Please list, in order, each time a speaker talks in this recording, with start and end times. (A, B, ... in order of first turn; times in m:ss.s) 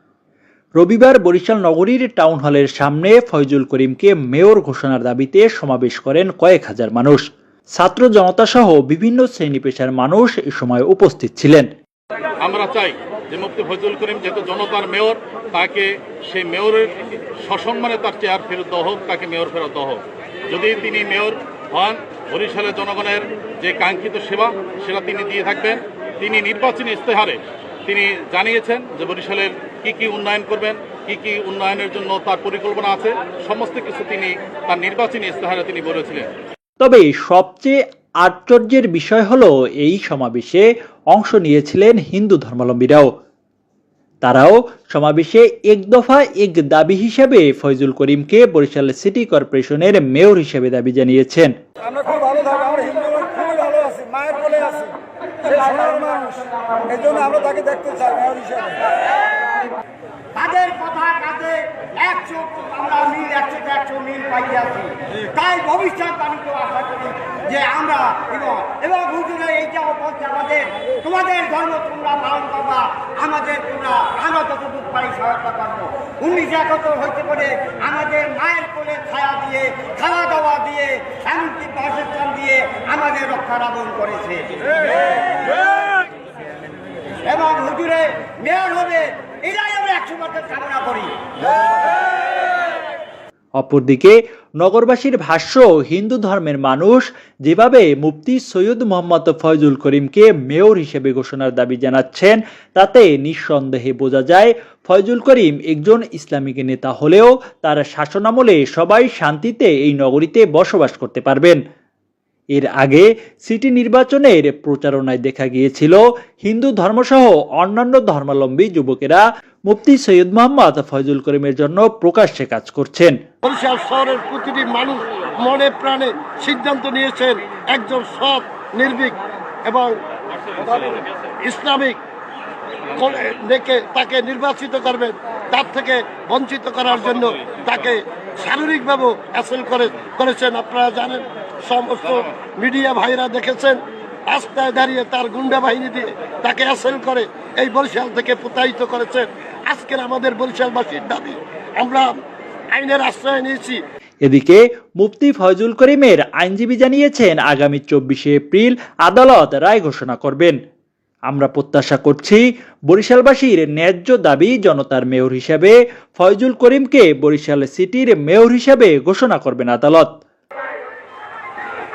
0:00.8-0:07.2 A
0:07.8-0:11.7 A
0:12.4-0:36.2 B
0:36.8-0:43.1 A
0:44.2-0:51.5 A
0:51.9-0:54.9 C
0:55.5-0:56.4 C
0:56.9-0:58.7 C
1:00.3-1:25.2 D
1:27.2-1:31.1 D
1:33.6-1:51.6 A
1:52.5-2:03.2 A
2:03.4-2:09.9 E
2:11.4-2:12.0 E
2:13.0-2:32.2 E
2:32.7-2:33.8 E
2:34.2-2:40.6 A
2:41.3-2:50.1 A